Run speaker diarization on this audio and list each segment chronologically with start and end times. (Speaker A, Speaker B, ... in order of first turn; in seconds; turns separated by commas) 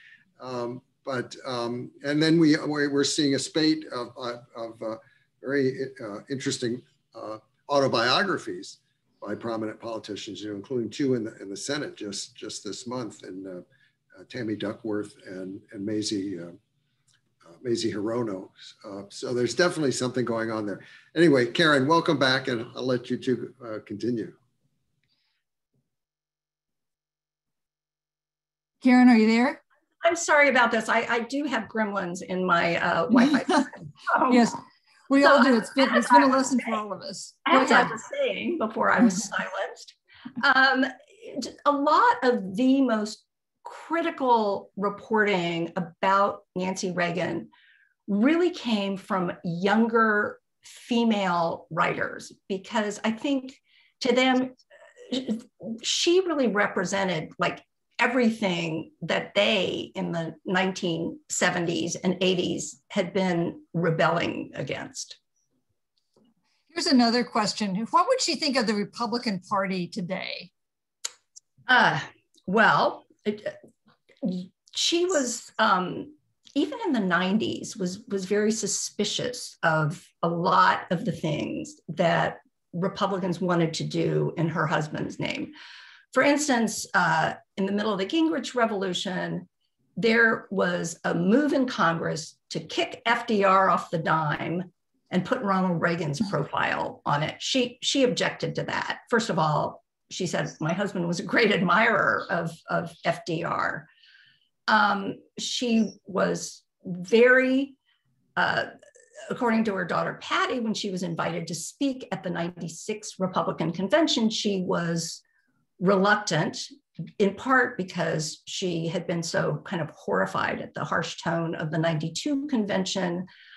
Speaker A: 0.4-13.7, Speaker A: 14.2-16.6, Speaker A: 17.4-24.4, Speaker B: 28.8-29.6, Speaker C: 30.0-34.5, Speaker B: 34.3-37.9, Speaker C: 35.2-36.6, Speaker C: 37.5-47.5, Speaker C: 48.1-65.2, Speaker B: 66.7-70.5, Speaker C: 71.7-73.5, Speaker C: 74.2-85.5, Speaker C: 86.1-103.9, Speaker C: 104.7-107.8, Speaker C: 108.4-108.7, Speaker C: 109.3-115.2, Speaker C: 115.8-116.7, Speaker C: 117.2-123.3